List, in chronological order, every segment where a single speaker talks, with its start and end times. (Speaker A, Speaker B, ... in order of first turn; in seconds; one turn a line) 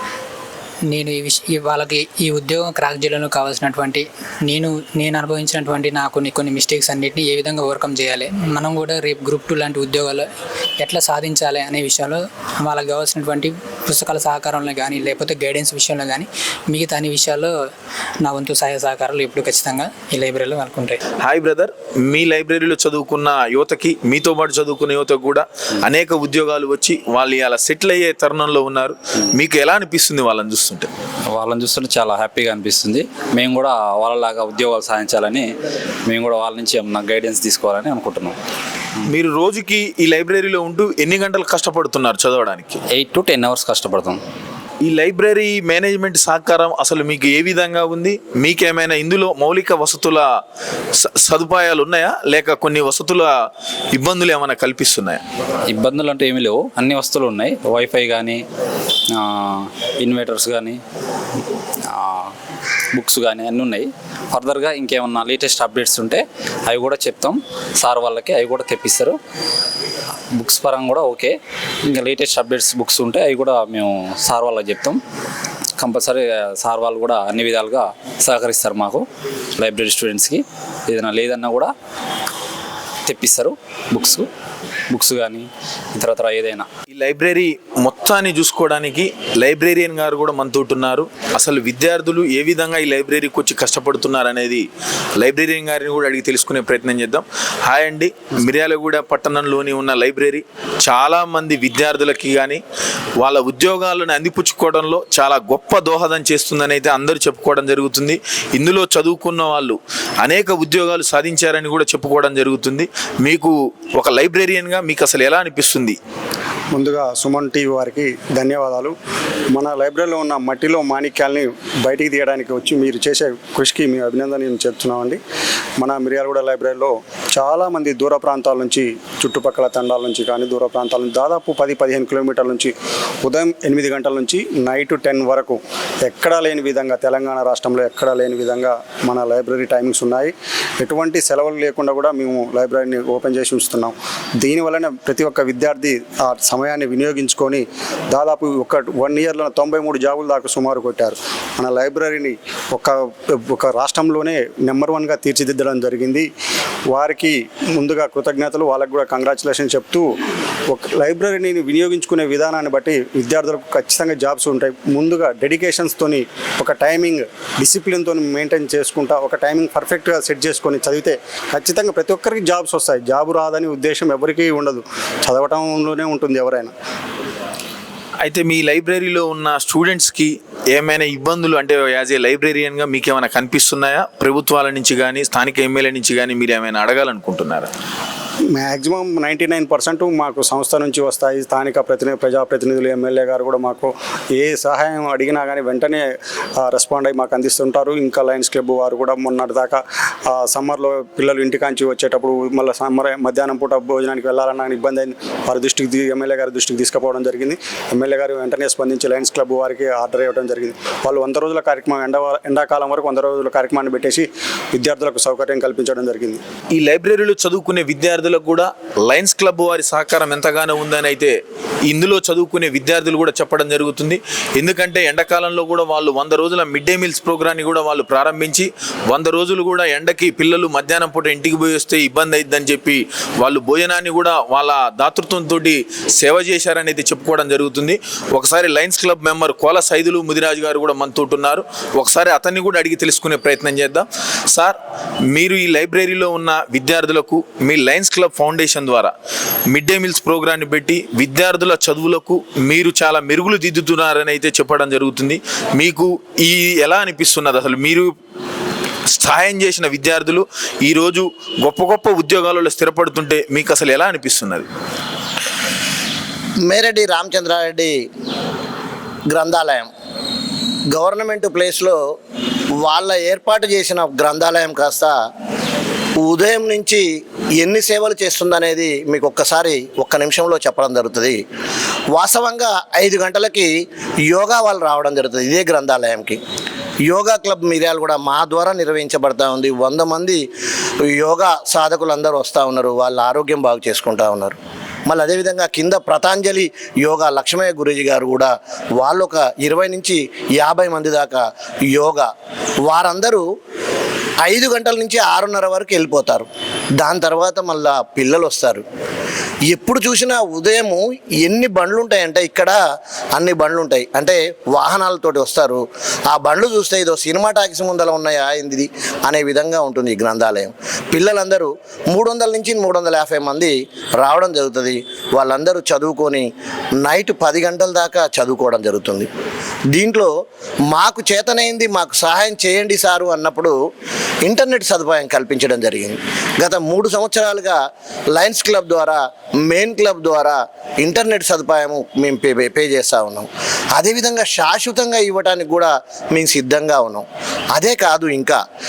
Speaker A: 0.9-10.3
Speaker A: 10.8-17.6
Speaker A: 18.2-21.0
Speaker B: 21.2-30.9
Speaker C: 31.4-35.5
Speaker C: 36.1-38.3
Speaker B: 39.1-42.8
Speaker C: 43.0-44.2
Speaker B: 44.9-50.2
Speaker B: 51.3-53.3
Speaker B: 53.9-55.2
Speaker C: 55.7-58.4
Speaker C: 59.2-60.8
Speaker C: 61.9-62.3
Speaker C: 63.0-69.2
Speaker C: 70.3-71.4
Speaker C: 71.9-75.0
Speaker C: 75.8-79.0
Speaker C: 79.6-81.7
Speaker C: 83.1-84.2
Speaker C: 84.9-86.7
Speaker B: 86.9-94.7
Speaker B: 95.2-102.6
Speaker B: 103.2-116.0
Speaker D: 116.7-119.0
Speaker D: 119.5-125.2
Speaker D: 125.8-156.3
Speaker D: 156.9-160.1
Speaker D: 160.7-176.7
Speaker B: 178.2-187.7
Speaker D: 188.6-196.1
Speaker D: 196.6-216.4
Speaker B: 216.8-221.3
Speaker B: 221.9-244.8
Speaker B: 245.3-249.1
Speaker B: 249.7-258.1
Speaker B: 259.1-264.7
Speaker E: 266.7-268.0
Speaker E: 269.3-269.9
Speaker E: 270.9-272.0
Speaker E: 272.8-275.2
Speaker E: 276.2-277.1
Speaker E: 277.6-281.4
Speaker E: 282.1-283.7
Speaker E: 284.3-286.4
Speaker E: 287.1-290.4
Speaker E: 291.1-302.3
Speaker E: 302.8-303.4
Speaker E: 304.4-306.5
Speaker E: 307.0-308.8
Speaker E: 309.7-312.8
Speaker E: 313.4-326.5
Speaker E: 327.0-329.3
Speaker E: 329.9-330.3
Speaker E: 330.9-333.8
Speaker E: 334.4-337.8
Speaker E: 338.3-348.6